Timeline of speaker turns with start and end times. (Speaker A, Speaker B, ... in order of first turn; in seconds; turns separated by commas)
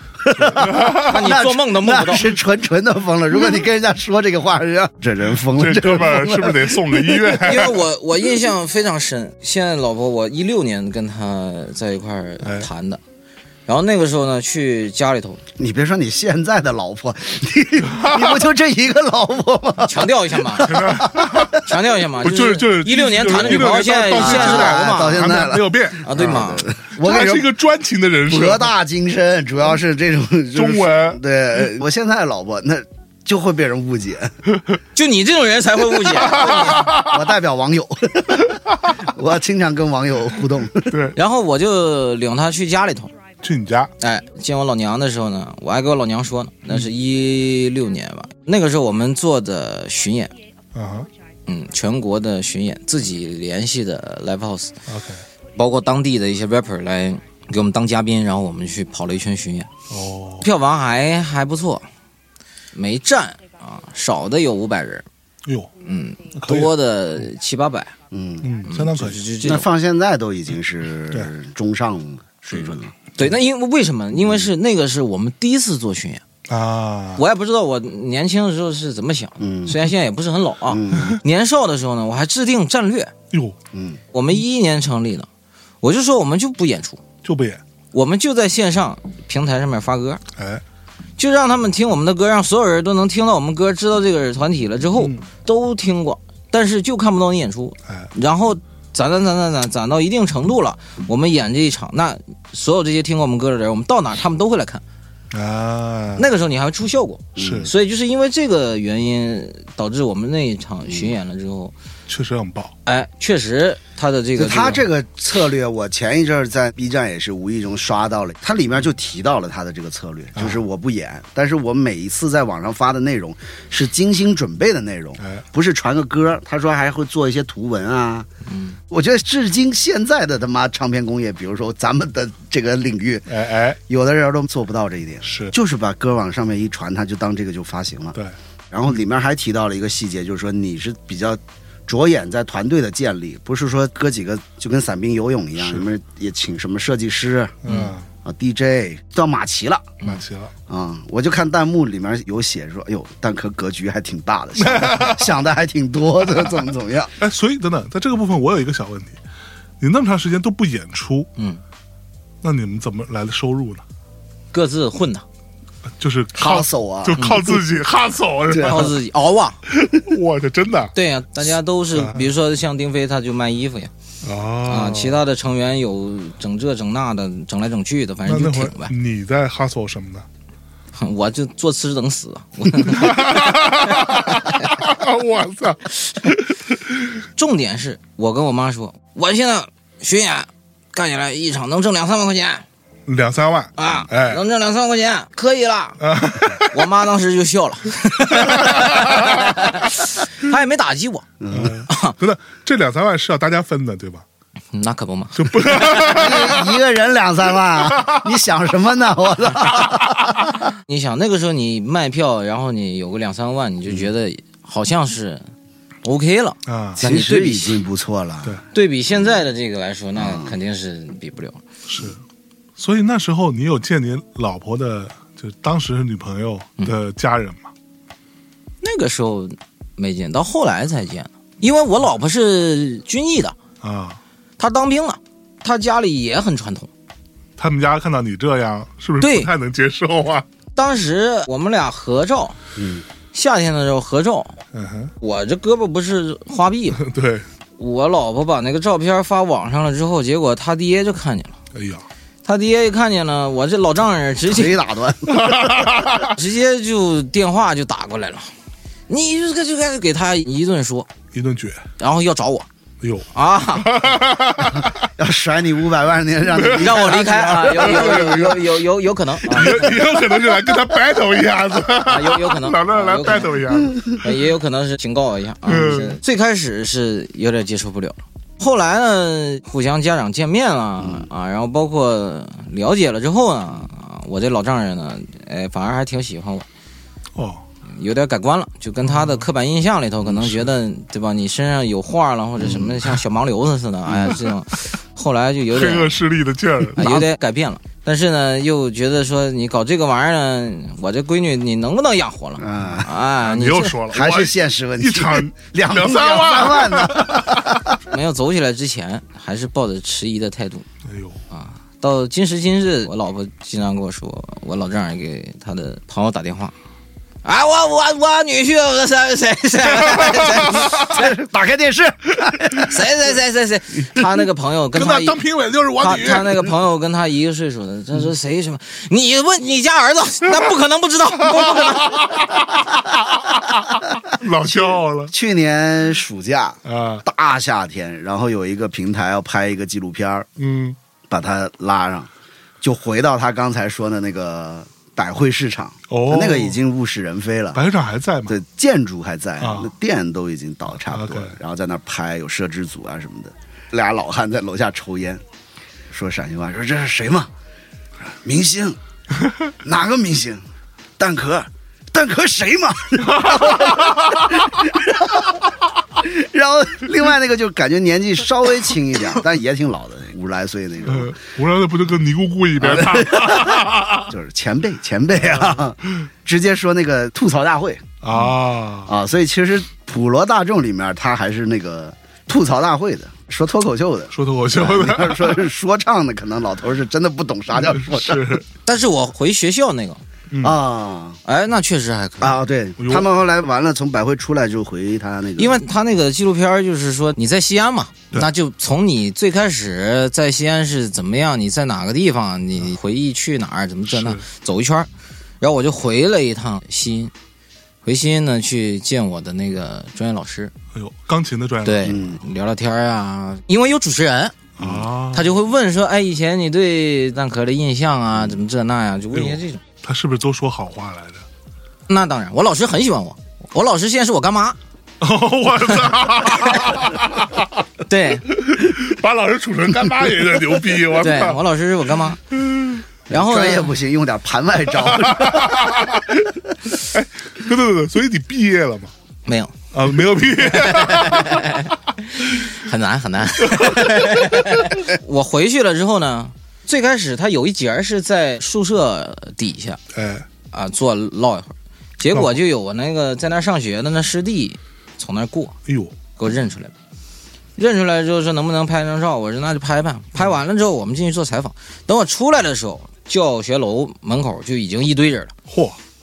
Speaker A: 0.2-7.4, Speaker B: 0.4-1.1, Speaker C: 0.8-2.4, Speaker B: 5.5-7.9, Speaker C: 7.3-13.0, Speaker B: 12.4-12.7, Speaker C: 13.7-15.4, Speaker A: 15.6-21.6, Speaker B: 17.8-18.4, Speaker C: 19.9-21.0, Speaker B: 20.6-28.7, Speaker C: 21.5-25.3, Speaker A: 24.0-27.5, Speaker C: 26.0-26.7, Speaker A: 28.3-34.4, Speaker B: 30.6-31.2, Speaker C: 35.0-36.9, Speaker B: 36.2-37.2, Speaker A: 36.3-41.0, Speaker B: 40.9-41.1, Speaker C: 41.1-43.1, Speaker B: 43.4-43.9, Speaker C: 44.0-50.3, Speaker B: 50.7-51.1, Speaker C: 51.5-54.7, Speaker B: 54.9-55.2, Speaker C: 55.6-59.7, Speaker B: 59.9-60.5, Speaker C: 60.4-61.9, Speaker C: 62.7-65.1, Speaker B: 65.5-65.7, Speaker C: 65.8-67.9, Speaker B: 66.3-66.7, Speaker A: 68.1-68.5, Speaker B: 68.4-69.2, Speaker C: 68.7-69.7, Speaker A: 69.4-72.9, Speaker C: 73.2-76.2, Speaker B: 76.5-77.2, Speaker C: 77.2-83.1, Speaker A: 79.4-79.8, Speaker A: 80.7-81.2, Speaker A: 83.7-84.0, Speaker C: 84.1-85.3, Speaker C: 85.8-87.0, Speaker B: 87.2-87.6, Speaker C: 87.9-90.2, Speaker B: 90.4-90.6, Speaker C: 91.2-104.8, Speaker B: 95.0-95.2, Speaker B: 105.3-106.3, Speaker C: 106.2-111.7, Speaker A: 107.4-107.7, Speaker B: 107.4-107.7, Speaker A: 110.9-111.1, Speaker B: 112.1-112.8, Speaker C: 112.9-114.8, Speaker A: 114.4-128.3, Speaker C: 128.4-128.8, Speaker A: 128.9-138.2, Speaker B: 133.3-133.8, Speaker B: 135.2-135.5, Speaker A: 138.7-147.6, Speaker B: 145.6-145.9, Speaker B: 147.6-148.1, Speaker C: 147.7-147.9, Speaker A: 148.2-149.9, Speaker B: 150.1-150.5, Speaker A: 150.7-157.1, Speaker B: 154.6-155.3, Speaker B: 157.2-159.2, Speaker B: 159.8-161.3, Speaker C: 161.4-161.6, Speaker B: 162.4-163.8, Speaker C: 164.5-165.2, Speaker B: 166.0-169.0, Speaker A: 166.3-167.6, Speaker C: 167.2-167.4, Speaker A: 168.5-168.9, Speaker C: 168.6-169.6, Speaker B: 169.7-170.9, Speaker C: 170.9-173.9, Speaker B: 171.9-172.3, Speaker B: 174.2-175.2, Speaker C: 174.7-178.9, Speaker B: 178.2-180.2, Speaker C: 181.0-184.7, Speaker B: 182.8-187.0, Speaker C: 187.4-192.6, Speaker B: 193.1-194.4, Speaker C: 193.8-196.0, Speaker B: 196.0-196.8, Speaker C: 196.6-201.3, Speaker B: 198.3-199.4, Speaker A: 201.4-201.8, Speaker B: 201.5-204.2, Speaker C: 201.9-202.2, Speaker C: 204.7-206.2, Speaker B: 205.4-206.6, Speaker A: 206.1-210.5, Speaker C: 210.9-215.5, Speaker C: 216.0-217.8, Speaker B: 216.7-217.0, Speaker A: 217.0-218.6, Speaker C: 218.7-221.6, Speaker A: 220.2-220.6, Speaker B: 221.9-222.2, Speaker B: 222.8-227.7, Speaker C: 228.8-233.6, Speaker B: 233.8-234.2, Speaker C: 234.6-236.9, Speaker B: 237.6-240.5, Speaker C: 239.2-239.5, Speaker C: 240.8-242.6, Speaker A: 242.8-243.0, Speaker C: 243.3-244.6, Speaker B: 244.7-245.1, Speaker C: 245.2-247.0, Speaker B: 247.0-247.4, Speaker C: 247.8-251.6, Speaker B: 251.7-252.1, Speaker C: 252.4-254.8, Speaker A: 254.4-256.2, Speaker B: 255.3-256.3, Speaker C: 256.3-258.5, Speaker C: 259.1-261.1, Speaker B: 261.3-261.9, Speaker C: 262.0-262.7, Speaker B: 263.0-265.0, Speaker C: 263.3-264.1, Speaker A: 265.2-268.6, Speaker B: 266.5-267.1, Speaker C: 266.7-270.0, Speaker B: 267.7-268.6, Speaker B: 269.5-274.2, Speaker C: 272.1-273.6, Speaker C: 274.2-286.7, Speaker B: 275.7-276.2, Speaker A: 281.0-281.3, Speaker B: 287.4-287.6, Speaker C: 287.9-296.1, Speaker B: 289.1-289.4, Speaker B: 290.3-290.6, Speaker A: 292.6-293.0, Speaker B: 295.7-297.2, Speaker C: 297.0-304.0, Speaker A: 302.6-303.1, Speaker B: 303.4-307.8, Speaker A: 304.1-308.0, Speaker C: 308.1-310.9, Speaker B: 311.1-311.4, Speaker C: 311.5-316.7, Speaker C: 317.4-321.3, Speaker B: 320.1-320.9, Speaker A: 320.6-322.9, Speaker C: 322.8-325.4, Speaker B: 324.9-326.8, Speaker C: 326.0-332.3, Speaker B: 331.5-335.3, Speaker A: 334.6-340.5, Speaker B: 336.9-337.2, Speaker B: 340.6-341.0, Speaker A: 341.3-342.3, Speaker A: 342.8-347.8, Speaker B: 346.1-346.8, Speaker B: 347.8-348.6, Speaker A: 348.5-355.4, Speaker B: 349.6-349.9, Speaker B: 351.1-351.5, Speaker A: 356.1-357.5, Speaker A: 358.2-359.0, Speaker A: 359.8-360.6, Speaker A: 361.2-371.3, Speaker B: 363.3-364.5, Speaker B: 371.1-374.3, Speaker A: 372.8-378.2, Speaker B: 378.2-379.1, Speaker A: 379.1-388.6, Speaker B: 384.3-385.7, Speaker B: 387.8-388.7, Speaker C: 388.9-390.2, Speaker B: 390.5-390.8, Speaker A: 390.6-391.4, Speaker C: 391.4-392.6, Speaker A: 392.4-395.8, Speaker B: 393.0-393.3, Speaker C: 395.6-405.1, Speaker B: 404.1-404.4, Speaker C: 405.6-407.3, Speaker C: 408.0-410.7, Speaker B: 410.9-412.2, Speaker C: 411.8-414.7, Speaker A: 412.0-412.4, Speaker B: 414.8-415.5, Speaker A: 414.8-415.1, Speaker C: 415.3-419.8, Speaker B: 419.3-421.4, Speaker C: 422.1-424.8, Speaker B: 425.2-427.7, Speaker C: 426.4-427.0, Speaker C: 428.1-428.5, Speaker B: 428.5-431.6, Speaker C: 431.2-432.4, Speaker B: 432.7-433.0, Speaker C: 433.3-433.9, Speaker A: 433.3-436.0, Speaker B: 435.0-439.1, Speaker C: 439.5-439.8, Speaker B: 439.9-441.8, Speaker C: 440.7-450.0, Speaker B: 443.6-444.7, Speaker B: 450.1-450.5, Speaker C: 450.7-455.8, Speaker B: 452.3-452.6, Speaker B: 455.9-456.1, Speaker C: 456.4-456.9, Speaker C: 457.8-465.5, Speaker B: 465.7-466.0